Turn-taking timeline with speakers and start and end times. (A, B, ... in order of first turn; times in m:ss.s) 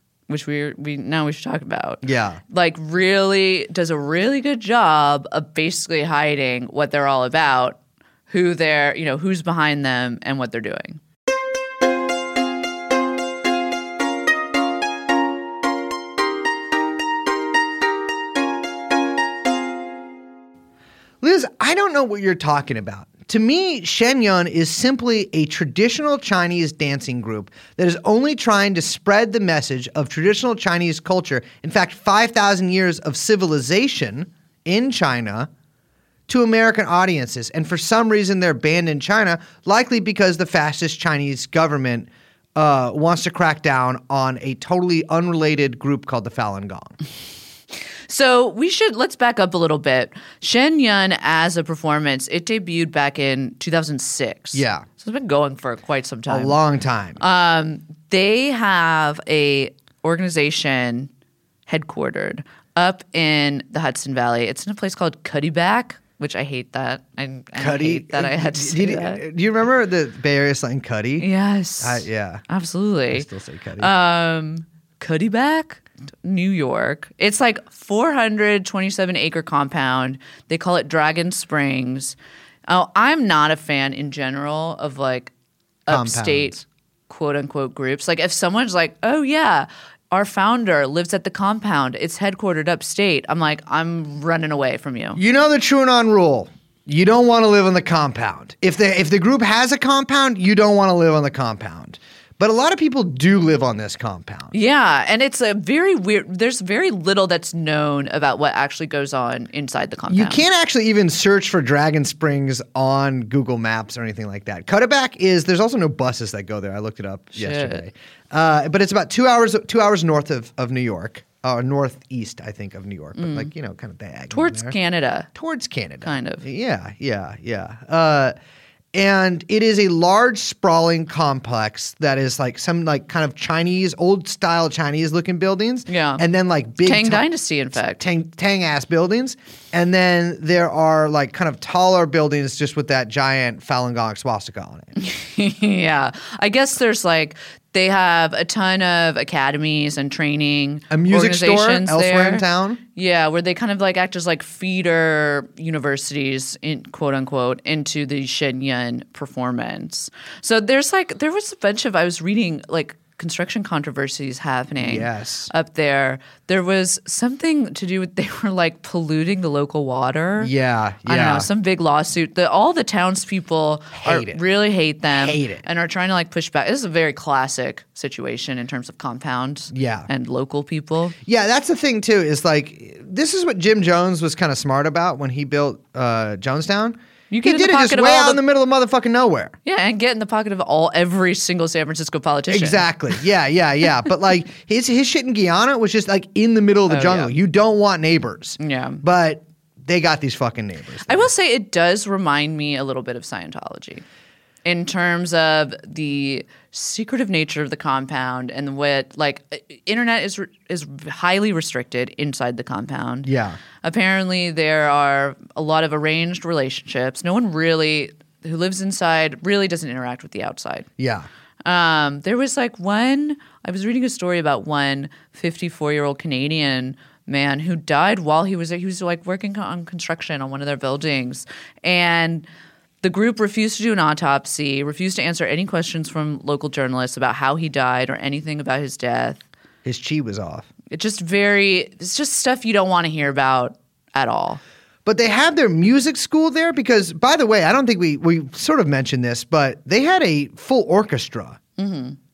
0:00.3-0:11.0 A
0:02.0-0:02.4 B
0:21.2-0:35.5 B
0:36.3-0:47.0 B
0:48.1-0:56.6 A
0:54.5-0:54.8 B
0:56.3-0:57.2 B
0:57.2-1:01.1 A
1:01.7-1:09.2 A
1:07.6-1:11.3 B
1:11.2-1:13.3 A
1:11.8-1:12.4 B
1:13.1-1:13.9 B
1:13.8-1:22.2 A
1:22.7-1:25.3 A
1:25.8-1:35.2 A
1:25.9-1:26.6 B
1:35.2-1:44.5 B
1:44.5-1:50.4 A
1:50.1-2:04.8 B
1:57.3-1:57.8 A
2:03.2-2:03.5 A
2:04.3-2:05.3 A
2:05.3-2:08.3 B
2:06.0-2:06.4 A
2:08.9-2:17.2 B
2:15.9-2:16.2 A
2:16.8-2:18.0 A
2:17.9-2:25.0 B
2:25.0-2:50.5 A
2:30.9-2:32.8 B
2:44.8-2:45.5 B
2:50.4-2:51.5 B
2:51.0-3:01.2 A
2:53.9-2:54.4 B
2:55.1-2:55.6 B
2:59.7-3:00.1 B
3:01.2-3:09.6 B
3:07.3-3:08.4 A
3:09.6-3:12.9 A
3:12.5-3:21.3 B
3:16.9-3:17.3 A
3:18.6-3:19.0 A
3:21.0-3:24.0 A
3:24.6-3:33.3 A
3:33.2-3:33.6 B
3:33.8-3:40.9 A
3:41.0-3:41.3 B
3:41.6-3:52.5 A
3:53.0-3:59.4 A
3:59.8-4:00.7 B
4:00.9-4:04.6 A
4:05.0-4:11.6 B
4:11.8-4:12.2 A